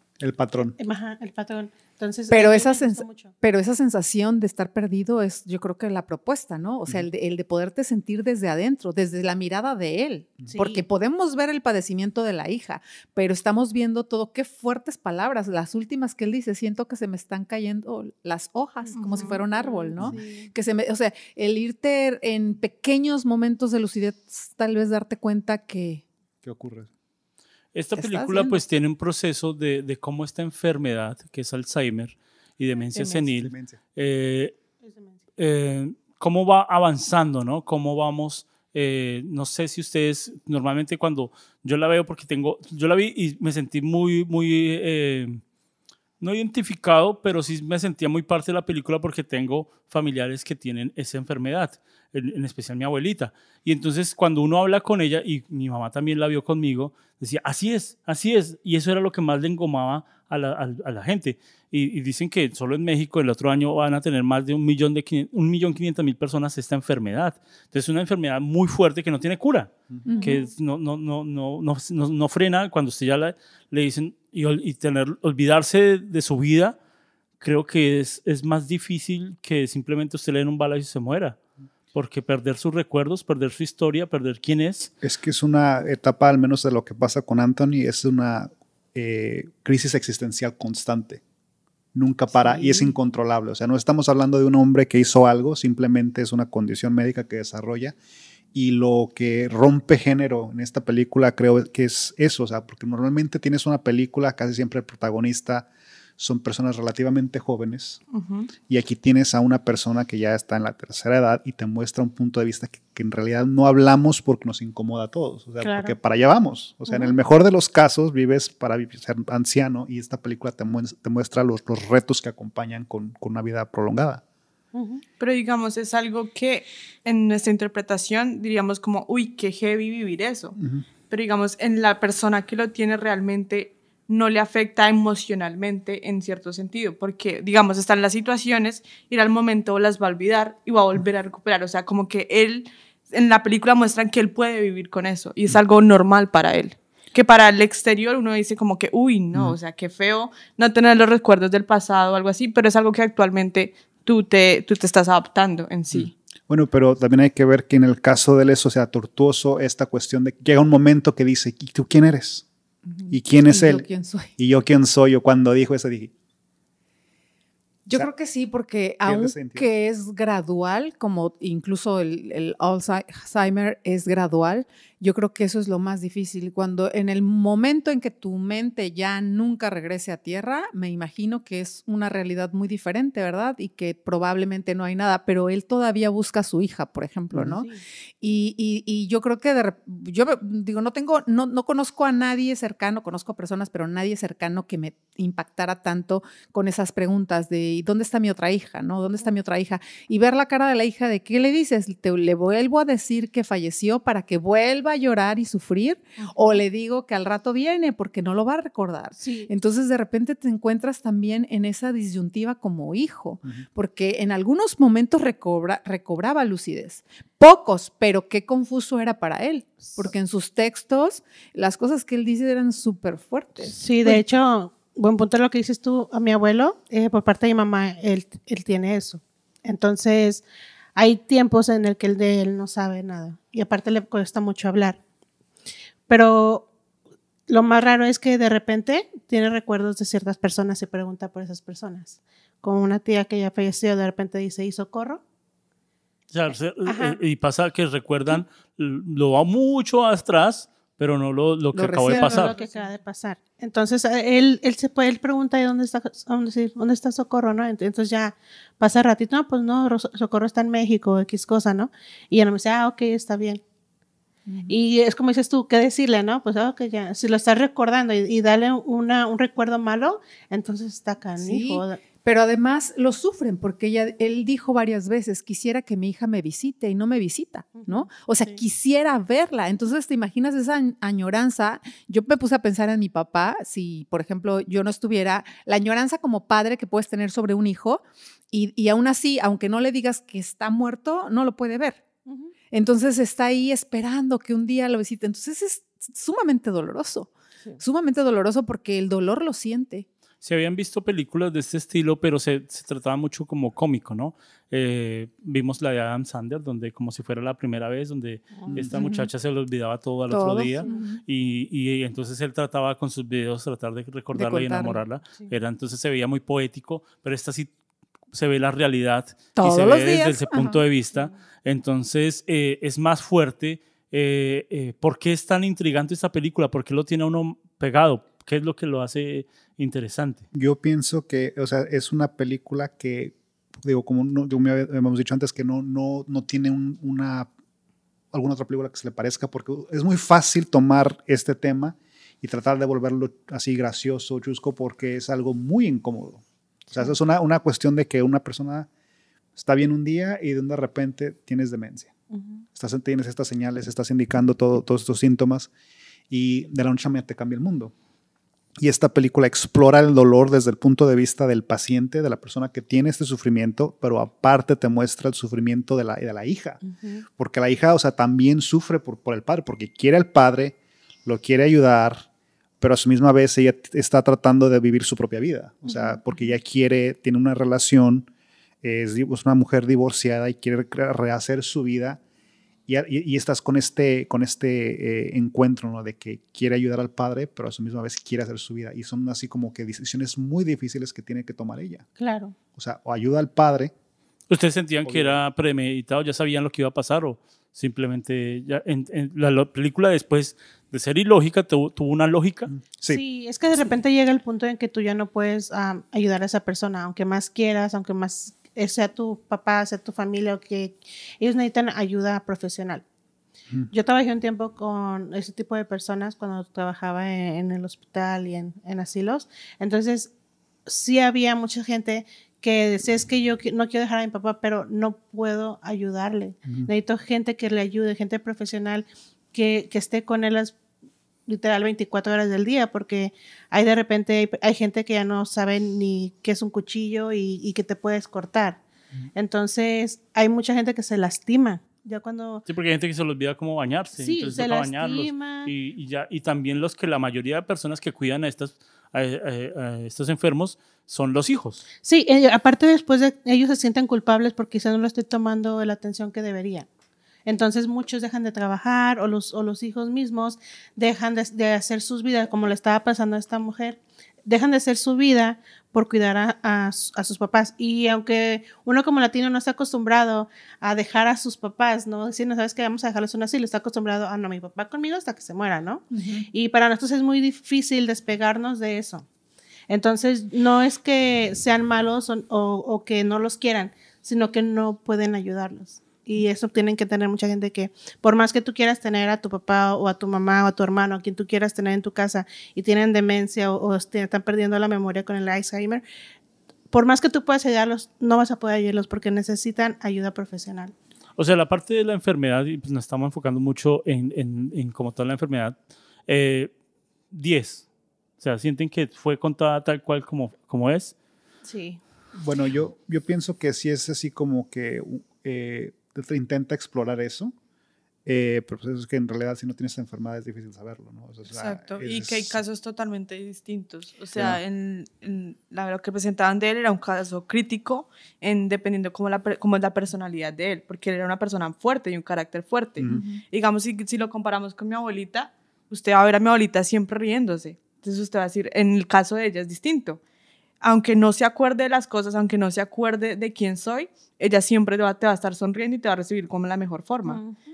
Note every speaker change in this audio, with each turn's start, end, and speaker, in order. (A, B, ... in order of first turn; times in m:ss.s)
0:00.2-0:00.8 A
0:00.8-0:03.3 B
0:02.3-0:26.0 C
0:10.5-0:10.8 B
0:18.9-0:20.5 B
0:26.4-0:26.9 A
0:27.7-0:34.5 D
0:28.0-0:28.6 C
0:33.0-0:33.8 A
0:34.8-0:35.2 B
0:35.4-0:45.4 D
0:46.2-1:16.8 D
1:10.0-1:10.4 C
1:17.4-1:21.4 D
1:21.9-1:24.9 D
1:25.0-1:31.2 A
1:31.9-1:38.0 A
1:32.3-1:32.9 C
1:38.5-1:48.0 A
1:48.1-1:48.5 E
1:48.7-2:04.2 A
1:55.6-1:55.9 B
1:56.9-1:57.1 B
2:04.7-2:05.0 B
2:05.2-2:10.6 E
2:10.6-2:10.8 A
2:11.1-2:36.1 E
2:35.9-2:42.4 A
2:42.9-2:44.3 C
2:43.1-2:43.8 A
2:44.4-2:46.1 A
2:47.8-3:07.7 C
2:49.0-2:49.7 A
3:07.3-3:07.6 A
3:08.2-3:44.2 C
3:26.2-3:26.6 B
3:29.2-3:29.5 B
3:43.6-3:50.4 B
3:51.0-3:55.0 B
3:56.1-3:56.7 B
3:57.5-4:05.2 B
4:06.3-4:12.5 D
4:06.8-4:07.2 B
4:11.7-4:12.7 C
4:12.1-4:23.6 B
4:24.5-4:24.8 C
4:24.7-4:32.0 B
4:31.4-4:52.0 C
4:37.8-4:38.6 B
4:52.3-4:52.5 B
4:52.7-5:00.1 C
5:00.4-5:17.7 D
5:08.9-5:09.3 C
5:10.3-5:11.2 C
5:14.3-5:15.0 C
5:18.3-5:30.4 D
5:19.6-5:20.8 C
5:30.5-5:37.5 A
5:38.3-5:48.9 A
5:49.6-5:52.1 A
5:52.3-5:52.6 B
5:52.7-5:55.7 A
5:56.3-5:57.9 A
5:58.8-6:06.8 A
6:06.8-6:07.2 B
6:07.4-6:12.2 A
6:12.8-6:18.3 A
6:15.9-6:16.1 B
6:18.8-6:22.2 A
6:22.9-6:32.1 A
6:32.2-6:32.6 B
6:32.7-6:33.9 A
6:34.5-6:42.7 D
6:35.0-6:35.4 A
6:42.7-6:43.2 A
6:43.1-6:53.0 B
6:53.9-7:00.3 B
7:00.8-7:10.8 B
7:11.5-7:18.8 B
7:19.3-7:22.6 B
7:22.7-7:31.8 D
7:24.2-7:25.7 B
7:32.0-7:36.9 B
7:37.4-7:59.2 B
7:56.1-7:56.4 C
7:59.9-8:16.0 B
8:16.9-8:20.9 B
8:21.4-8:25.8 D
8:26.3-8:26.7 D
8:27.3-8:27.8 D
8:28.4-8:31.1 D
8:31.6-8:32.0 B
8:32.4-8:37.5 A
8:38.2-8:42.6 A
8:41.5-9:00.2 E
8:44.4-8:44.6 A
8:53.0-8:53.2 A
8:53.1-8:53.4 C
9:00.8-9:07.4 E
9:07.2-9:07.6 B